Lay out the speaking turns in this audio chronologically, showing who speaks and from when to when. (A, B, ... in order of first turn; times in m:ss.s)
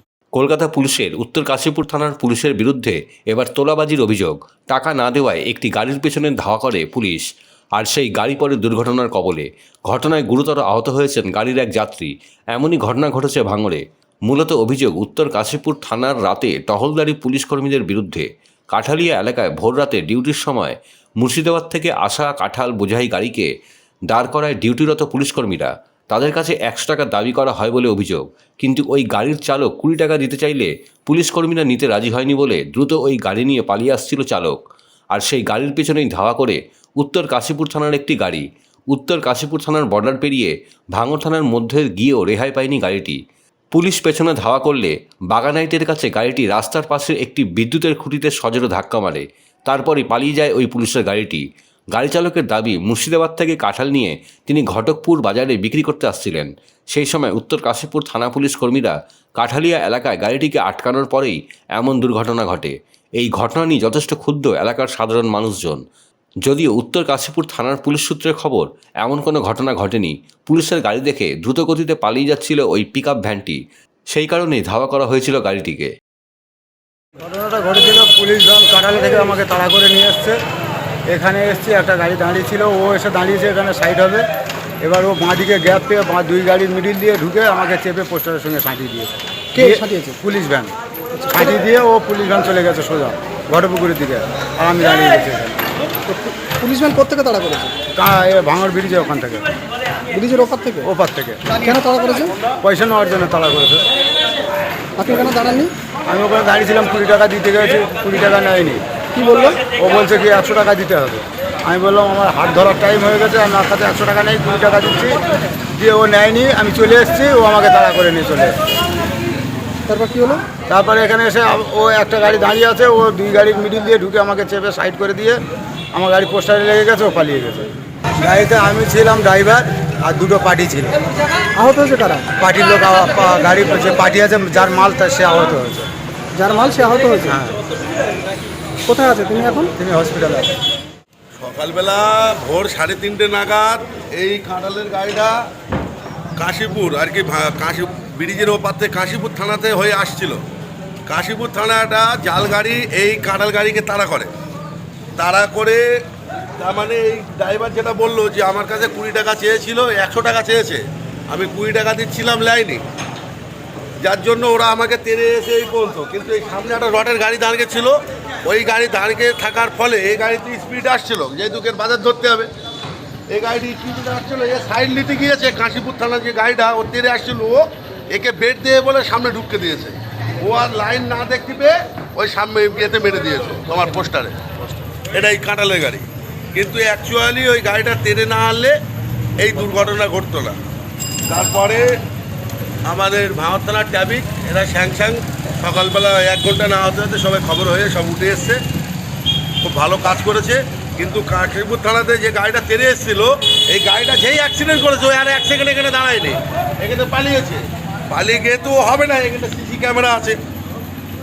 0:00.3-0:07.2 A
0:07.7-0:23.5 A
0:24.1-0:34.6 A
0:35.1-0:43.2 A
0:43.7-1:05.8 A
1:06.4-1:13.6 A
1:14.1-1:15.9 A
1:17.2-1:20.4 B
1:21.1-1:24.2 B
1:24.8-1:30.7 B
1:29.5-1:30.1 C
1:31.1-1:31.5 C
1:31.3-1:35.6 B
1:36.1-1:37.7 C
1:38.0-1:39.5 B
1:40.1-1:40.9 C
1:40.8-1:41.6 B
1:41.6-1:42.4 C
1:42.6-1:43.8 B
1:45.0-1:45.7 C
1:46.1-1:48.8 B
1:49.2-1:49.7 C
1:49.7-1:55.2 B
1:55.7-1:58.6 B
1:59.9-2:00.4 C
2:00.7-2:05.4 B
2:05.9-2:11.0 B
2:11.6-2:12.3 C
2:12.4-2:15.9 B
2:16.3-2:17.4 C
2:17.2-2:17.6 B
2:18.9-2:19.7 C
2:19.8-2:20.5 B
2:21.4-2:25.4 D
2:26.4-2:30.4 D
2:31.1-2:34.3 D
2:35.2-2:35.8 D
2:36.6-2:42.8 D
2:44.0-2:52.5 D
2:53.3-3:04.3 D
3:05.1-3:08.8 D
3:09.4-3:10.6 D
3:11.3-3:11.9 D
3:12.8-3:18.6 D
3:19.6-3:30.4 D